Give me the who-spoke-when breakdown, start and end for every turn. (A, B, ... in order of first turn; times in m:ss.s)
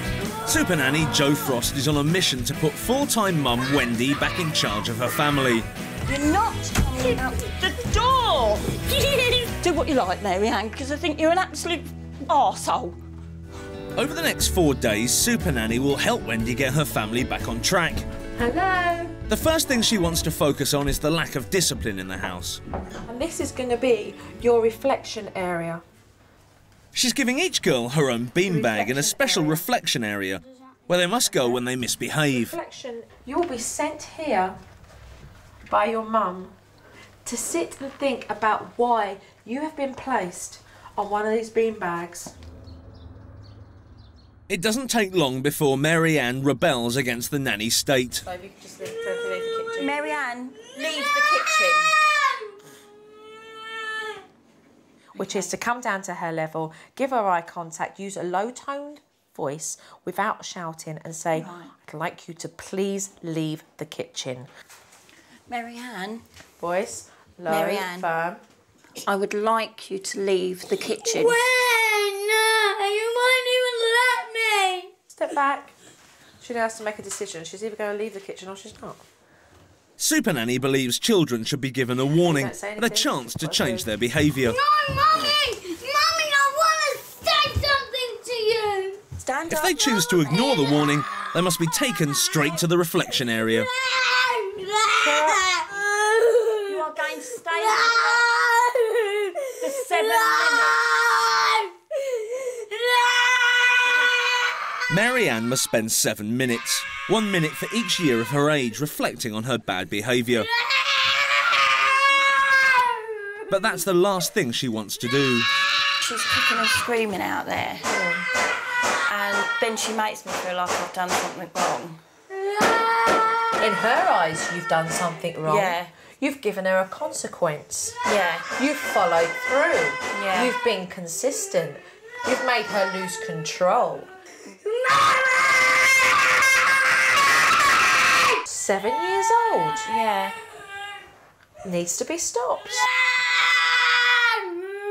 0:00.4-0:05.7 A
0:06.0-0:13.0 B
0:13.9-0:18.1 A
0:18.4-0:19.2 C
0:19.3-0:22.6 A
0:23.1-0:25.8 C
0:26.9-0:32.6 A
0:28.4-0:29.7 C
0:32.3-0:34.6 C
0:35.7-0:36.5 C
0:37.2-0:42.3 C
0:44.5-0:48.2 A
0:48.2-0:50.1 C
0:49.8-0:51.9 B
0:55.2-0:55.5 B
0:55.2-1:04.5 C
1:01.3-1:01.7 B
1:05.5-1:06.2 B
1:06.6-1:08.4 C
1:07.5-1:08.1 B
1:09.0-1:11.4 B
1:11.3-1:14.9 D
1:15.1-1:15.7 C
1:16.4-1:19.0 C
1:20.0-1:24.6 A
1:22.2-1:23.9 C
1:24.4-1:29.0 D
1:29.2-1:30.9 B
1:29.5-1:33.7 A
1:33.8-1:36.6 D
1:35.0-1:35.4 C
1:36.6-1:38.4 B
1:37.8-1:39.5 D
1:39.6-1:40.9 B
1:40.2-1:44.6 D
1:44.9-1:50.5 A
1:50.6-1:52.0 D
1:52.6-1:53.0 D
1:53.5-1:55.5 A
1:56.0-1:57.9 B
1:57.9-1:58.2 C
1:59.1-2:02.0 B
2:03.6-2:08.0 C
2:05.4-2:05.9 B
2:08.0-2:08.5 B
2:08.6-2:14.1 C
2:10.1-2:10.6 B
2:14.9-2:16.0 D
2:18.4-2:19.9 C
2:19.8-2:20.4 B
2:21.6-2:22.9 C